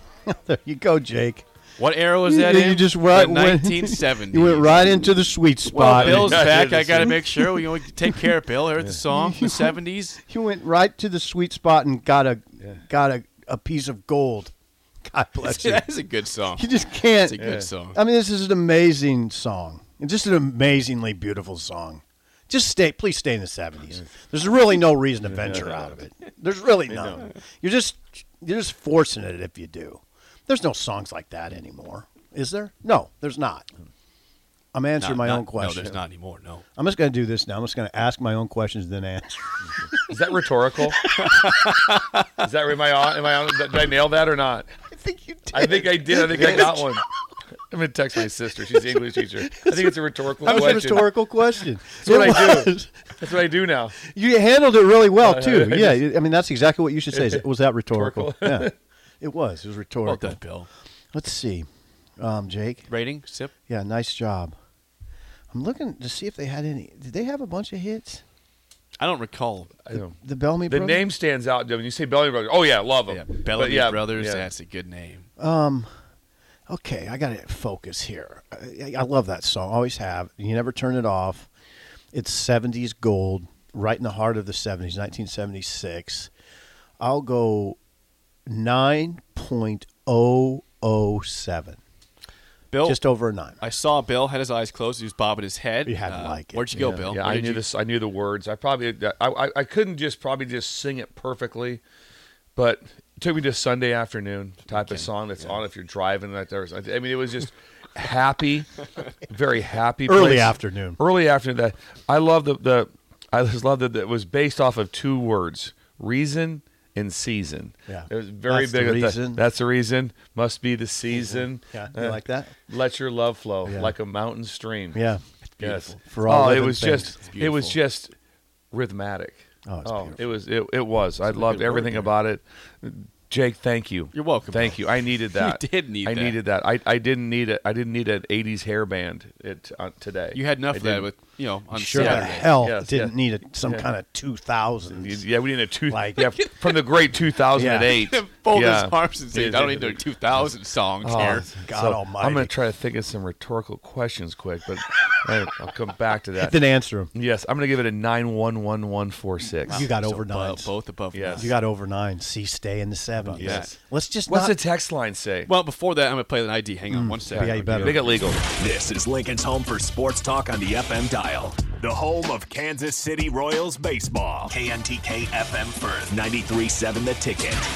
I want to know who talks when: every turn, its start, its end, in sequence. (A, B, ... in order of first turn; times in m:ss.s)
0:00.3-0:01.4 A
0:01.8-0:04.9 B
0:02.2-0:08.4 A
0:05.7-0:10.2 B
0:05.8-0:07.2 C
0:09.1-0:14.5 A
0:15.1-0:15.9 A
0:15.4-0:18.0 B
0:16.6-0:33.7 A
0:17.4-0:17.7 C
0:25.3-0:26.0 C
0:26.9-0:27.3 C
0:34.7-0:36.0 A
0:35.0-0:36.6 B
0:36.8-0:39.5 A
0:40.1-0:41.0 C
0:41.2-0:42.2 B
0:42.4-0:44.7 C
0:44.9-0:47.0 A
0:45.5-0:47.0 C
0:47.7-0:51.1 C
0:48.9-0:53.0 A
0:51.9-0:54.0 C
0:54.0-1:00.4 A
0:55.2-0:56.0 C
0:57.1-0:58.7 C
1:00.0-1:00.7 B
1:01.1-1:01.7 A
1:02.2-1:02.9 A
1:02.9-1:03.5 B
1:03.7-1:04.5 A
1:05.5-1:08.2 A
1:09.0-1:09.7 B
1:09.9-1:14.5 C
1:09.9-1:11.0 A
1:13.1-1:15.3 B
1:15.4-1:15.9 A
1:16.7-1:21.5 A
1:22.1-1:26.3 A
1:27.0-1:27.8 A
1:28.5-1:31.8 A
1:32.7-1:33.0 B
1:32.8-1:33.6 A
1:33.6-1:37.6 B
1:35.8-1:36.8 A
1:36.7-1:41.8 C
1:42.6-1:48.8 C
1:44.7-1:45.5 B
1:49.3-2:05.0 C
1:50.1-1:51.0 A
1:57.9-1:59.4 A
2:01.1-2:02.6 A
2:03.6-2:04.0 A
2:04.9-2:05.2 A
2:05.4-2:06.0 B
2:05.6-2:08.1 C
2:06.0-2:07.2 A
2:07.2-2:07.8 B
2:08.7-2:21.1 C
2:09.7-2:10.2 A
2:11.2-2:12.1 B
2:14.1-2:14.8 B
2:15.3-2:16.4 B
2:20.3-2:22.5 B
2:21.7-2:25.2 A
2:22.0-2:23.9 C
2:24.9-2:30.0 C
2:25.9-2:26.3 A
2:26.2-2:26.8 B
2:27.5-2:27.9 A
2:27.9-2:31.5 B
2:31.0-2:36.6 C
2:31.7-2:32.5 A
2:36.4-2:37.1 A
2:37.1-2:39.9 C
2:39.6-2:40.7 A
2:39.7-2:41.5 B
2:41.1-2:41.5 C
2:41.3-2:44.6 A
2:43.3-2:43.8 B
2:43.3-2:45.5 C
2:45.5-2:48.2 B
2:46.9-2:48.0 A
2:47.3-2:48.4 C
2:48.4-2:57.6 D